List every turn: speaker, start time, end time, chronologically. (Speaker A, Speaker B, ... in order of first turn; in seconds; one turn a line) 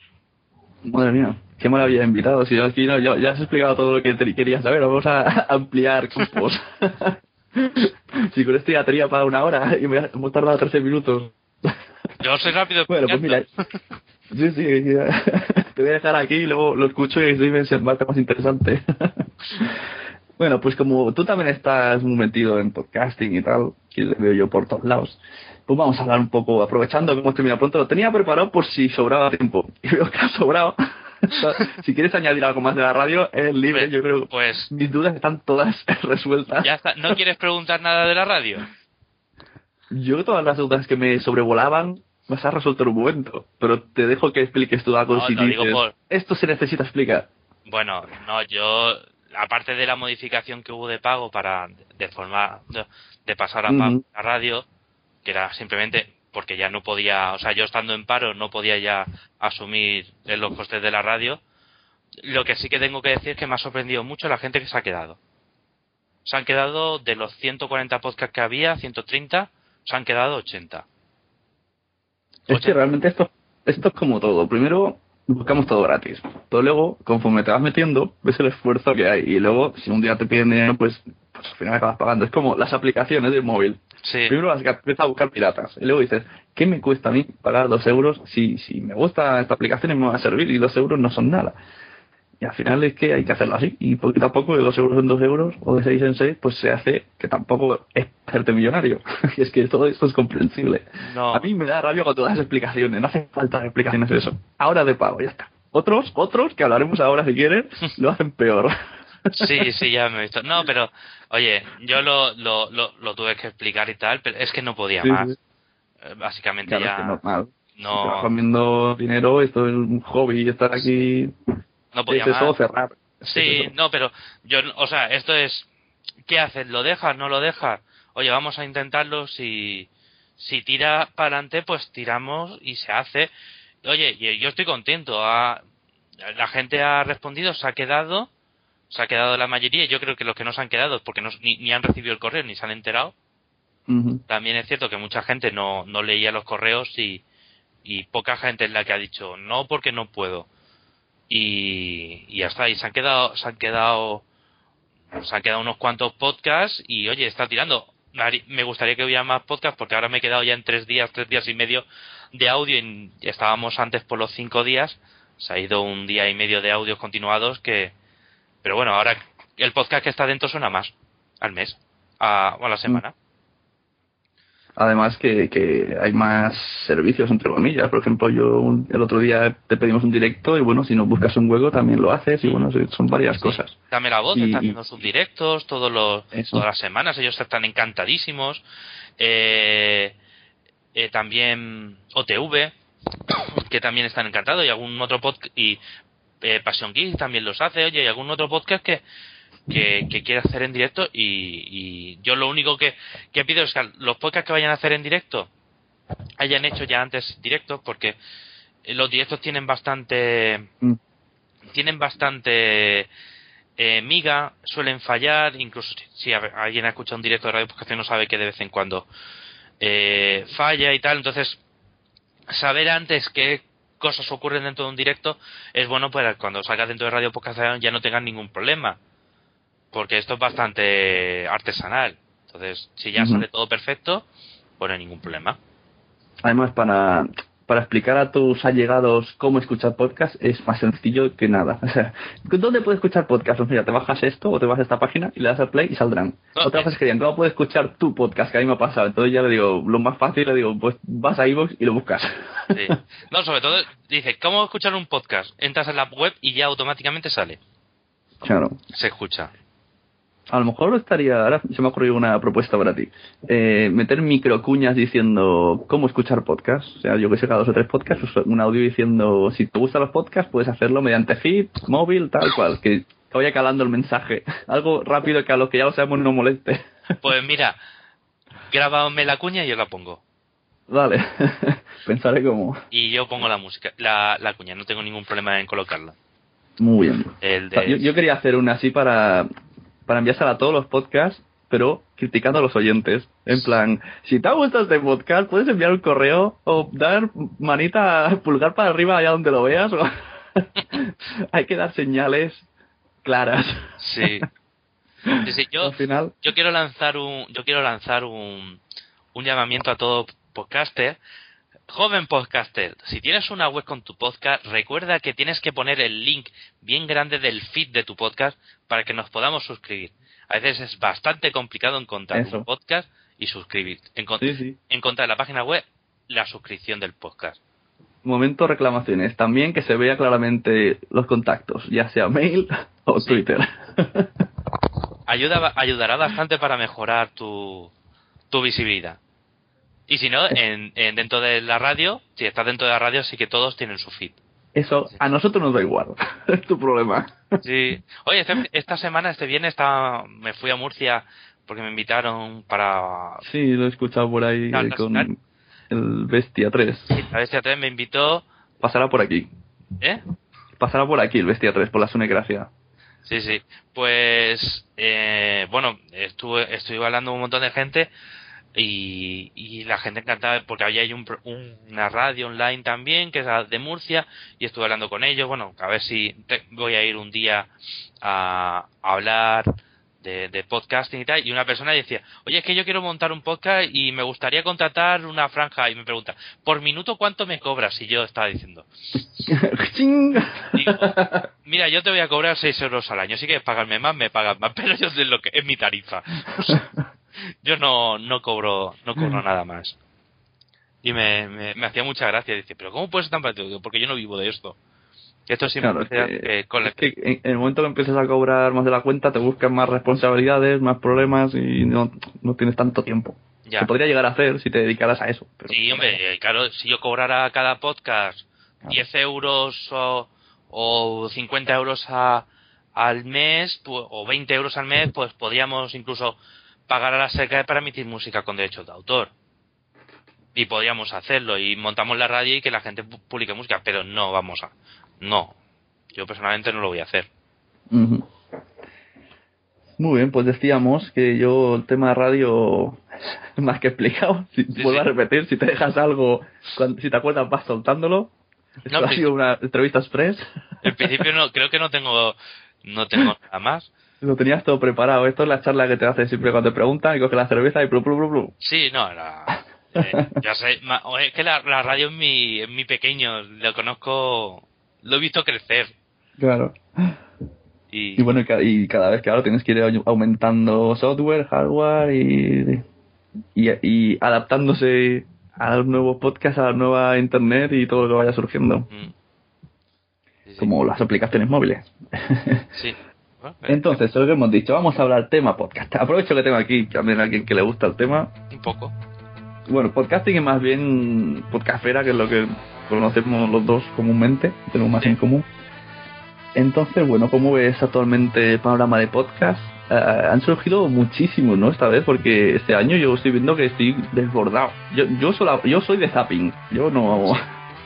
Speaker A: 0.8-11.7
Speaker B: 12.2-13.4
Speaker A: 12.9-13.5
Speaker A: 14.3-19.8
Speaker A: 20.4-37.2
Speaker B: 33.7-34.7
Speaker B: 36.6-38.6
Speaker A: 39.9-47.3
Speaker B: 45.1-46.0
Speaker B: 47.7-54.6
Speaker A: 53.7-54.0
Speaker B: 55.2-61.4
Speaker B: 62.2-65.2
Speaker B: 66.2-70.8
Speaker A: 72.5-91.6
Speaker B: 72.5-72.8
Speaker B: 84.0-84.4
Speaker A: 92.4-108.7
Speaker B: 101.0-101.5
Speaker B: 109.3-115.3
Speaker A: 115.0-115.3
Speaker B: 116.0-117.2
Speaker A: 116.7-121.3
Speaker B: 117.8-118.3
Speaker B: 121.9-122.6
Speaker A: 122.1-123.7
Speaker B: 123.3-125.7
Speaker B: 126.3-133.3
Speaker B: 133.8-135.6
Speaker B: 136.3-138.3
Speaker B: 138.9-143.1
Speaker A: 143.9-144.2
Speaker B: 144.3-147.2
Speaker B: 147.8-150.5
Speaker B: 151.3-154.2
Speaker B: 155.2-167.9
Speaker B: 168.6-173.1
Speaker A: 174.8-183.7
Speaker B: 183.4-188.6
Speaker A: 184.3-184.8
Speaker A: 186.3-186.6
Speaker B: 189.2-190.2
Speaker B: 190.9-192.7
Speaker B: 193.6-195.8
Speaker B: 196.4-199.0
Speaker B: 199.7-205.5
Speaker B: 206.4-208.2
Speaker B: 208.8-210.7
Speaker B: 211.7-213.1
Speaker B: 213.8-219.1
Speaker B: 219.8-221.6
Speaker B: 222.5-229.0
Speaker B: 229.9-234.2
Speaker A: 233.2-233.4
Speaker B: 234.8-235.6
Speaker A: 236.4-253.0
Speaker B: 246.6-246.9
Speaker B: 252.7-257.6
Speaker A: 258.4-258.8
Speaker B: 258.9-259.5
Speaker A: 260.5-276.8
Speaker B: 277.2-277.8
Speaker B: 278.7-280.2
Speaker A: 280.9-282.8
Speaker B: 282.9-286.1
Speaker A: 286.8-289.5
Speaker B: 287.4-288.1
Speaker A: 290.1-302.6
Speaker A: 303.2-304.5
Speaker B: 304.0-304.5
Speaker A: 305.2-306.4
Speaker B: 305.4-308.8
Speaker B: 309.3-311.2
Speaker B: 311.9-327.6
Speaker A: 322.3-322.7
Speaker A: 324.4-324.8
Speaker A: 328.2-334.3
Speaker B: 335.3-337.9
Speaker B: 338.5-339.2
Speaker B: 340.1-344.4
Speaker A: 344.8-347.4
Speaker B: 347.6-353.4
Speaker A: 353.4-355.3
Speaker B: 354.7-355.3
Speaker A: 355.9-357.1
Speaker B: 357.1-358.5
Speaker A: 358.8-359.5
Speaker A: 360.8-362.7
Speaker B: 363.2-368.1
Speaker B: 368.8-377.7
Speaker B: 378.2-379.7
Speaker B: 380.2-388.9
Speaker A: 389.5-391.5
Speaker B: 390.7-396.8
Speaker B: 397.6-400.0
Speaker B: 401.0-404.8
Speaker B: 405.5-407.1
Speaker A: 405.8-416.2
Speaker B: 415.7-426.4
Speaker B: 426.9-429.3
Speaker B: 430.6-435.6
Speaker B: 436.1-437.3
Speaker A: 437.9-438.3
Speaker A: 440.0-443.0
Speaker A: 443.6-448.3
Speaker B: 444.7-445.1
Speaker B: 448.9-449.3
Speaker A: 448.9-450.4
Speaker B: 450.8-453.9
Speaker A: 454.2-458.5
Speaker B: 458.6-465.9
Speaker A: 460.0-460.3
Speaker A: 466.4-467.1
Speaker B: 467.9-468.3
Speaker A: 468.2-472.8
Speaker A: 473.6-478.9
Speaker B: 480.5-480.7
Speaker A: 480.6-482.7
Speaker B: 482.8-484.0
Speaker A: 483.7-488.3
Speaker B: 488.5-488.9
Speaker A: 489.7-495.5
Speaker A: 496.6-507.4